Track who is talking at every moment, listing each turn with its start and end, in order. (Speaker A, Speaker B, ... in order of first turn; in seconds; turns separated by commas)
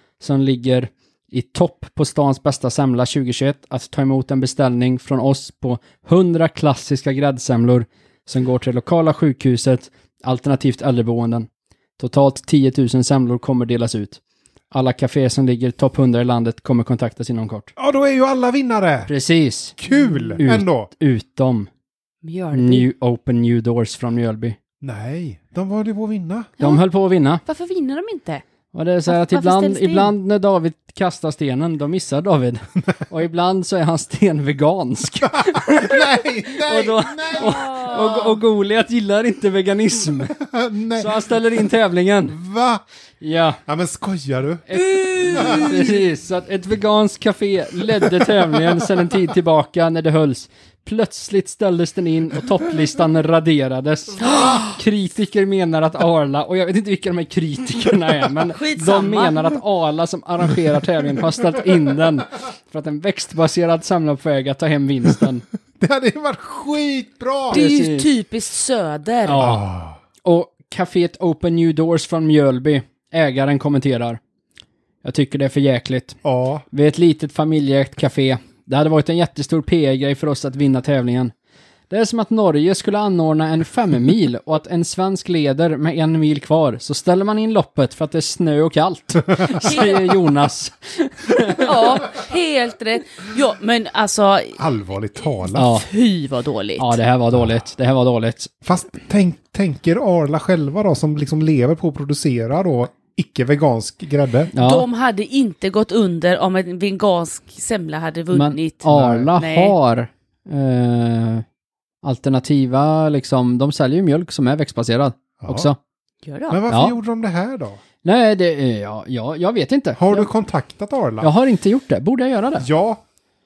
Speaker A: 0.2-14.2, Speaker A: 14.7-17.7, Speaker B: 17.8-19.1, Speaker A: 19.1-19.8, Speaker B: 19.8-20.9, Speaker C: 19.9-20.4, Speaker A: 20.4-21.7, Speaker C: 22.2-22.9, Speaker A: 22.5-24.6, Speaker B: 24.8-26.6, Speaker A: 26.6-27.4, Speaker C: 27.5-28.4, Speaker A: 28.7-40.4, Speaker C: 29.1-30.1, Speaker B: 35.2-38.0, Speaker C: 37.4-38.4, Speaker B: 40.4-41.3, Speaker A: 41.0-42.4, Speaker B: 42.3-42.8, Speaker A: 43.2-43.6, Speaker B: 43.7-45.8, Speaker A: 44.7-65.5, Speaker C: 45.0-45.8, Speaker B: 48.0-48.9, Speaker C: 54.2-54.7, Speaker C: 58.5-59.5, Speaker B: 65.8-67.7, Speaker A: 67.5-68.1, Speaker C: 67.5-69.5, Speaker A: 69.3-69.6, Speaker B: 69.4-70.0, Speaker A: 70.2-74.2, Speaker A: 75.0-76.2, Speaker B: 76.2-76.6, Speaker A: 76.7-81.3, Speaker A: 81.9-92.0, Speaker C: 89.6-90.2, Speaker C: 91.5-94.6, Speaker B: 94.6-95.7, Speaker C: 95.5-97.0, Speaker A: 95.5-95.9, Speaker A: 96.8-98.5, Speaker B: 98.6-104.5, Speaker A: 104.5-104.9, Speaker C: 104.6-109.8, Speaker A: 108.3-111.5, Speaker B: 108.9-109.3, Speaker A: 112.0-115.8, Speaker B: 115.4-115.7, Speaker C: 116.2-116.6, Speaker B: 116.5-117.8, Speaker A: 116.7-117.0, Speaker A: 118.0-120.3, Speaker B: 120.0-121.3, Speaker A: 121.2-122.7, Speaker B: 122.6-123.0